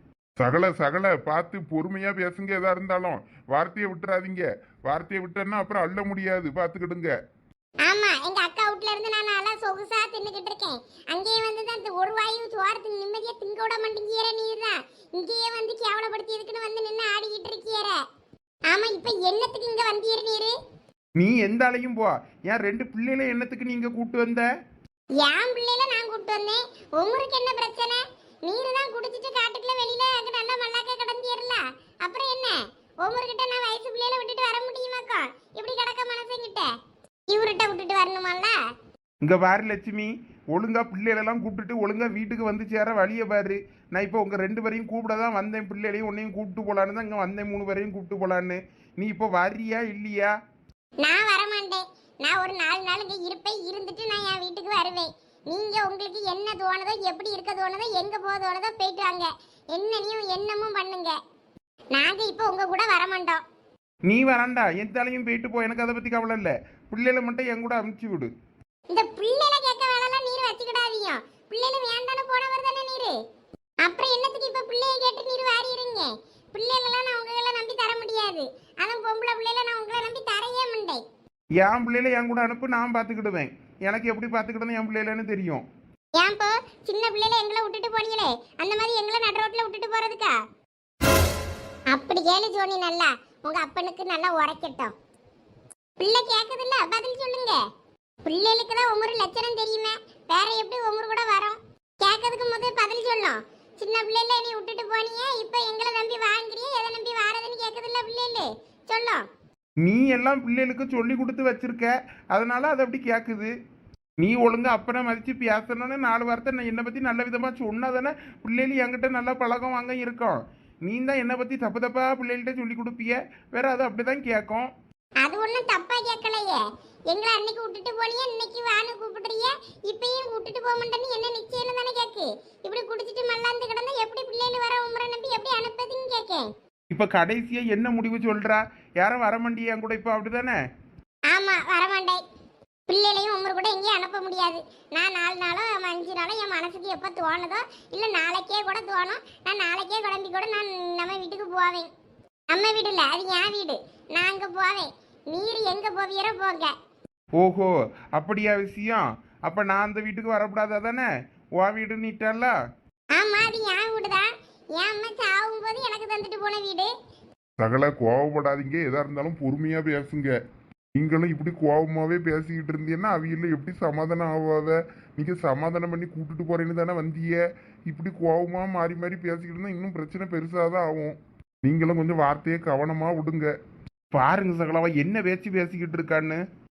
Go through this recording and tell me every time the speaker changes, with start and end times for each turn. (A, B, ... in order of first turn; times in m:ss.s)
0:00.4-0:07.1 A
0:07.8-0:18.0 B
0:18.7-0:20.5 B
0:21.2-0:24.4 C
0:25.2-0:36.7 B
0:37.3-0:38.6 B
0:39.2-0:50.3 C
0:51.0-1:01.2 B
1:01.9-1:03.4 B
1:04.1-1:08.3 C
1:08.9-1:13.1 B
1:13.8-1:21.0 B
1:21.6-1:25.6 C
1:26.2-1:30.4 B
1:31.9-1:34.9 B
1:36.0-1:37.6 B
1:38.2-1:49.2 B
1:49.8-1:53.5 C
1:54.2-2:04.7 C
2:05.2-2:16.5 B
2:16.9-2:20.6 C
2:21.3-2:22.2 B
2:22.9-2:31.9 B
2:32.5-2:36.7 B
2:37.4-2:42.5 C
2:43.2-2:46.9 B
2:47.6-2:50.3 A
2:51.0-3:03.5 A
3:04.1-3:06.4 C